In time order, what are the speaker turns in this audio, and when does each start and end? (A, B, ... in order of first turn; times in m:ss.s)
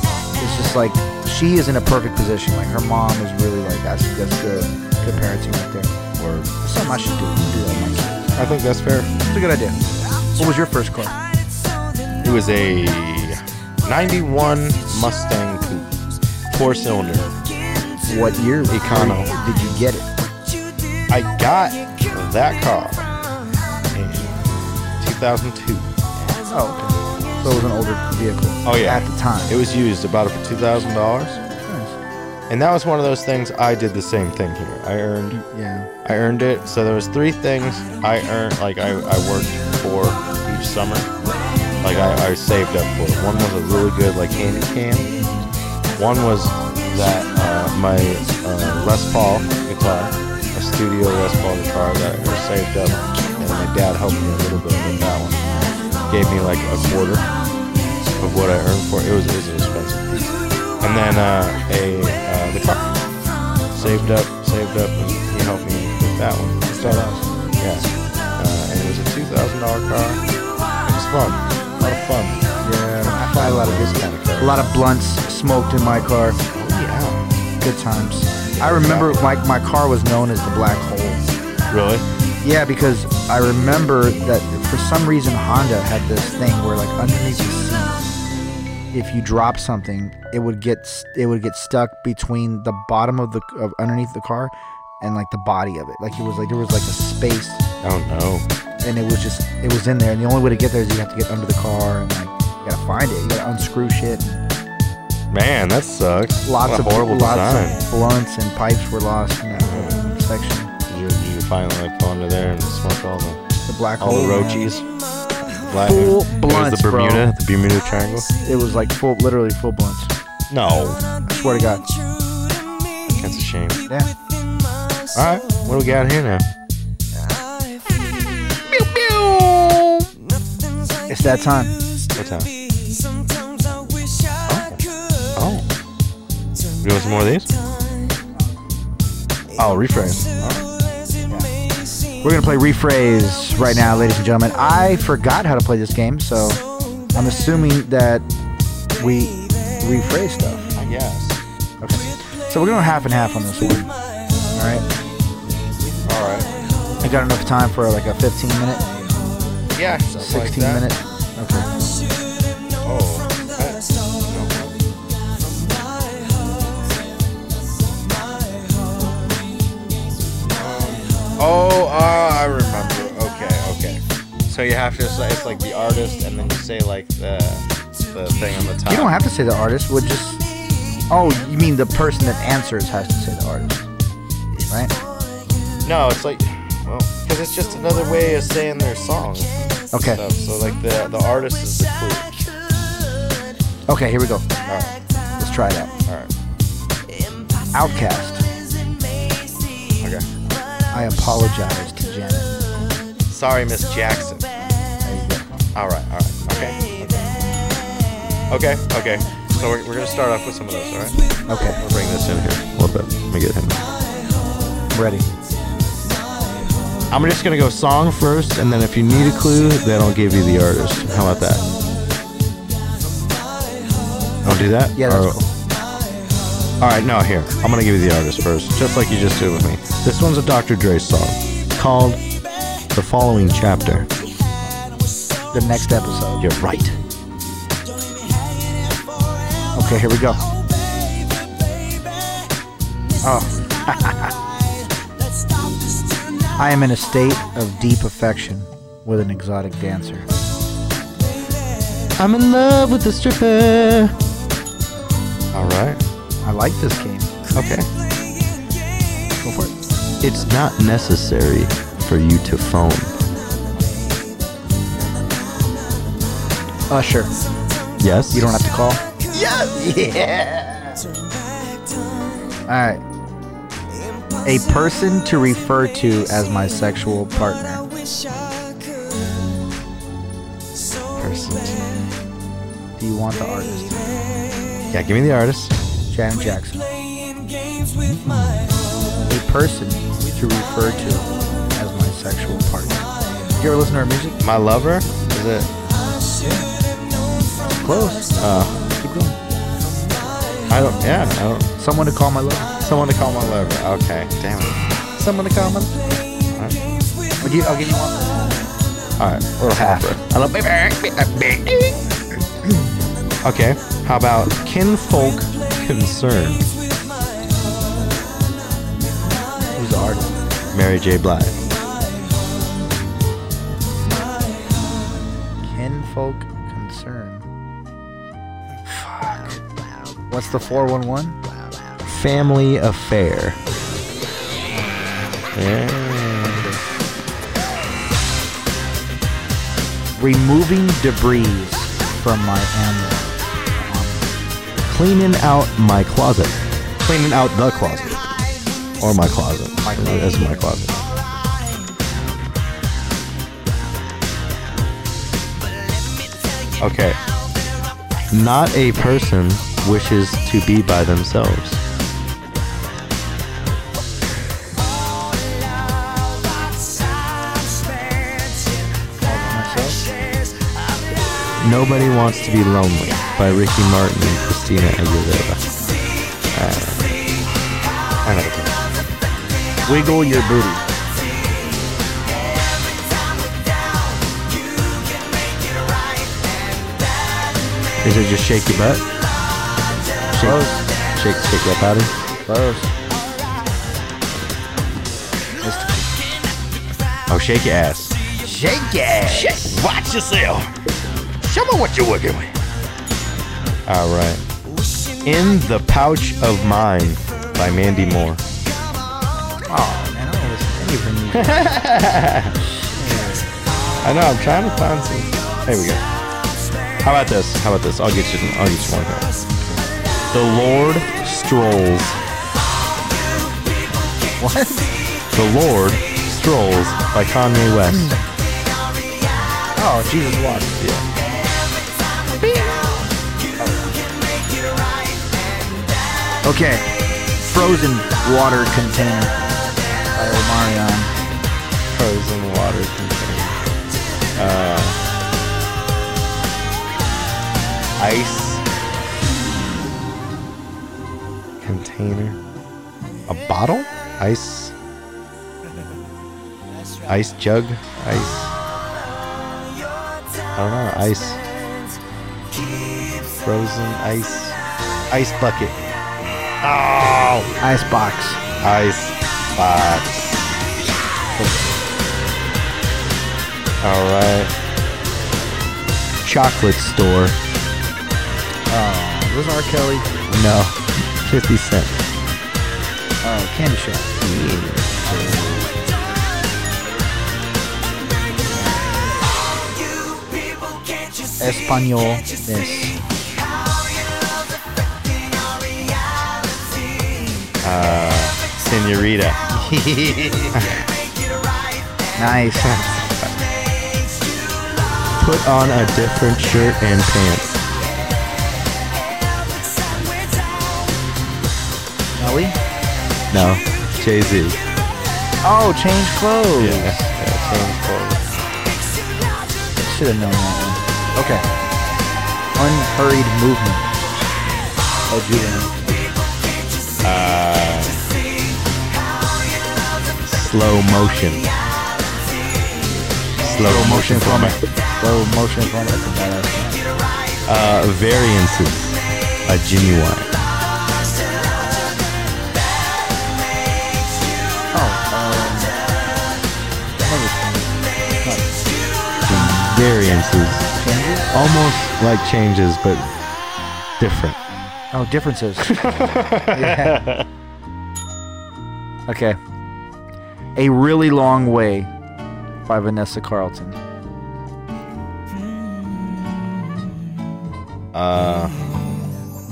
0:00.4-0:05.9 A
0:06.2-0:06.5 B
0:06.6-0:08.3 A
0:08.4-0:09.1 B
0:09.3-0:09.8 A
0:10.4-0:11.2 A
0:12.2-0:16.0 B
0:16.5-0:17.3 B
0:18.0-0:20.1 A
0:18.7-0:19.3 B
0:21.1-0:23.1 B
0:23.9-0:24.4 B
0:25.0-0:26.5 B
0:26.5-0:29.5 A
0:28.6-0:31.4 B
0:31.6-0:32.0 A
0:32.5-0:35.4 B
0:35.3-0:35.9 A
0:36.0-0:41.1 B
0:41.8-0:45.1 B
0:45.9-0:55.5 B
0:56.1-0:57.2 B
0:58.2-1:02.9 B
1:03.7-1:07.1 B
1:06.7-1:07.3 A
1:07.6-1:10.2 B
1:10.8-1:12.4 B
1:12.6-1:16.4 A
1:13.0-1:14.7 B
1:16.5-1:17.3 B
1:17.6-1:21.2 A
1:18.6-1:19.3 B
1:21.7-1:22.0 B
1:22.4-1:28.0 A
1:28.9-1:37.6 A
1:37.8-1:38.5 B
1:38.8-1:44.4 A
1:45.3-1:47.8 B
1:46.4-1:50.7 A
1:49.5-1:50.0 B
1:50.9-1:53.4 B
1:53.6-1:54.7 A
1:54.0-1:54.8 B
1:55.6-1:58.3 B
1:55.8-1:57.3 A
1:58.4-2:00.1 A
2:00.5-2:01.0 B
2:01.2-2:01.8 A
2:03.1-2:03.8 B
2:05.1-2:06.4 B
2:08.6-2:10.1 B
2:11.1-2:11.7 A
2:12.2-2:12.5 B
2:14.4-2:14.8 B
2:15.4-2:15.6 B
2:16.8-2:17.5 B
2:19.5-2:20.6 B
2:22.2-2:26.6 A
2:27.1-2:28.2 A
2:29.0-2:30.7 A
2:30.8-2:31.4 B
2:31.8-2:33.9 A
2:34.5-2:34.8 A
2:36.0-2:36.5 B
2:37.0-2:39.1 A
2:39.7-2:40.8 B
2:40.1-2:41.7 A
2:42.8-2:44.8 B
2:50.5-2:59.2 B
2:58.9-3:00.4 A
3:01.1-3:03.8 A
3:05.8-3:12.5 B
3:09.9-3:10.2 A
3:13.9-3:14.4 A
3:14.6-3:15.0 B
3:15.4-3:15.9 A
3:16.1-3:16.3 B
3:17.7-3:18.4 A
3:20.0-3:20.3 B
3:20.9-3:22.5 A
3:23.3-3:24.5 B
3:25.0-3:25.5 A
3:25.7-3:27.3 B
3:28.5-3:33.8 B
3:31.5-3:31.8 A
3:34.9-3:35.2 A
3:37.1-3:41.6 B
3:44.4-3:45.4 B
3:45.0-3:45.5 A
3:46.8-3:52.2 B
3:52.9-3:54.1 B
3:55.5-3:56.5 A
3:56.4-3:57.0 B
3:59.7-4:00.4 A
4:03.2-4:04.3 A
4:06.6-4:10.3 A
4:12.2-4:14.1 B
4:15.5-4:16.0 B
4:16.4-4:17.3 A
4:17.5-4:17.9 B
4:19.4-4:19.7 A
4:20.2-4:23.2 B
4:26.9-4:27.3 A
4:28.0-4:28.5 B
4:28.3-4:31.0 A
4:32.7-4:33.0 A
4:34.4-4:37.8 A
4:41.2-4:41.8 B
4:43.0-4:44.0 A
4:44.9-4:45.7 B
4:46.1-4:46.9 A
4:49.3-4:53.0 A
4:53.6-4:54.4 A
4:54.4-4:55.7 B
4:57.8-4:58.3 A
4:58.4-4:58.8 B
4:59.0-4:59.4 A
5:00.7-5:01.7 B
5:01.8-5:02.7 A
5:02.8-5:06.0 B
5:06.5-5:06.8 B
5:07.4-5:08.5 A
5:09.2-5:12.0 B
5:09.7-5:10.2 A
5:13.4-5:16.7 B
5:19.7-5:20.5 A
5:20.7-5:21.6 B
5:25.6-5:27.5 A
5:28.9-5:29.6 A
5:30.3-5:31.4 A
5:32.0-5:33.6 B
5:34.7-5:35.4 A
5:35.6-5:36.7 B
5:36.4-5:36.8 A
5:40.2-5:44.2 A
5:44.8-5:48.2 B
5:49.0-5:51.0 B
5:49.8-5:50.8 A
5:56.8-5:57.2 B
5:58.3-6:01.8 B
6:09.2-6:10.1 A
6:11.6-6:15.7 B
6:16.5-6:17.2 B
6:18.2-6:18.8 B
6:19.8-6:20.8 A
6:28.0-6:29.0 B
6:30.3-6:32.1 B
6:30.4-6:30.8 A
6:32.4-6:32.9 A
6:35.6-6:36.1 A
6:37.3-6:38.2 B
6:38.4-6:39.8 A
6:39.2-6:40.7 B
6:41.4-6:42.5 B
6:43.9-6:44.4 B
6:45.2-6:48.4 B
6:49.7-6:51.7 A
6:51.3-6:52.6 B
6:52.8-6:53.5 A
6:54.0-6:56.0 B
6:57.0-6:59.3 B
7:00.3-7:02.2 B
7:04.4-7:04.9 A
7:05.3-7:08.2 B
7:07.9-7:08.2 A
7:09.8-7:10.8 A
7:10.8-7:11.0 B
7:13.6-7:13.9 A
7:16.4-7:19.3 A
7:20.1-7:21.1 A
7:21.9-7:23.6 B
7:24.4-7:25.0 B
7:28.0-7:28.6 B
7:31.6-7:32.4 B
7:33.3-7:34.7 B
7:37.0-7:38.6 B
7:40.5-7:41.4 B
7:43.2-7:44.6 B
7:45.1-7:45.8 B
7:46.6-7:47.5 B
7:47.6-7:48.4 A
7:48.6-7:50.5 B
7:51.4-7:51.7 A
7:53.8-7:54.5 B
7:56.2-7:57.4 B
7:58.7-8:00.1 A
8:00.3-8:02.0 B
8:03.2-8:04.1 A
8:04.2-8:05.7 B
8:05.1-8:05.4 A
8:08.5-8:08.9 A
8:11.4-8:13.0 A
8:17.6-8:19.4 B
8:19.6-8:20.5 A
8:20.5-8:20.8 B
8:22.2-8:22.7 A
8:22.6-8:23.3 B
8:25.2-8:27.6 B
8:32.2-8:32.6 A
8:33.3-8:34.6 B
8:35.4-8:37.1 A
8:36.6-8:38.3 B
8:39.8-8:41.4 A
8:42.6-8:43.9 A
8:45.1-8:45.9 A
8:47.0-8:48.1 B
8:50.2-8:51.5 B
8:53.0-8:56.9 A
8:53.4-8:54.6 B
8:57.5-9:00.3 B
9:04.7-9:05.8 A
9:07.0-9:08.6 A
9:09.2-9:09.6 A
9:09.2-9:10.7 B
9:10.8-9:11.3 A
9:11.3-9:13.1 B
9:14.0-9:14.4 B
9:14.9-9:15.7 A
9:15.6-9:17.3 B
9:16.5-9:17.0 A
9:19.1-9:19.4 A
9:20.6-9:21.9 A
9:22.6-9:23.8 A
9:27.9-9:28.6 B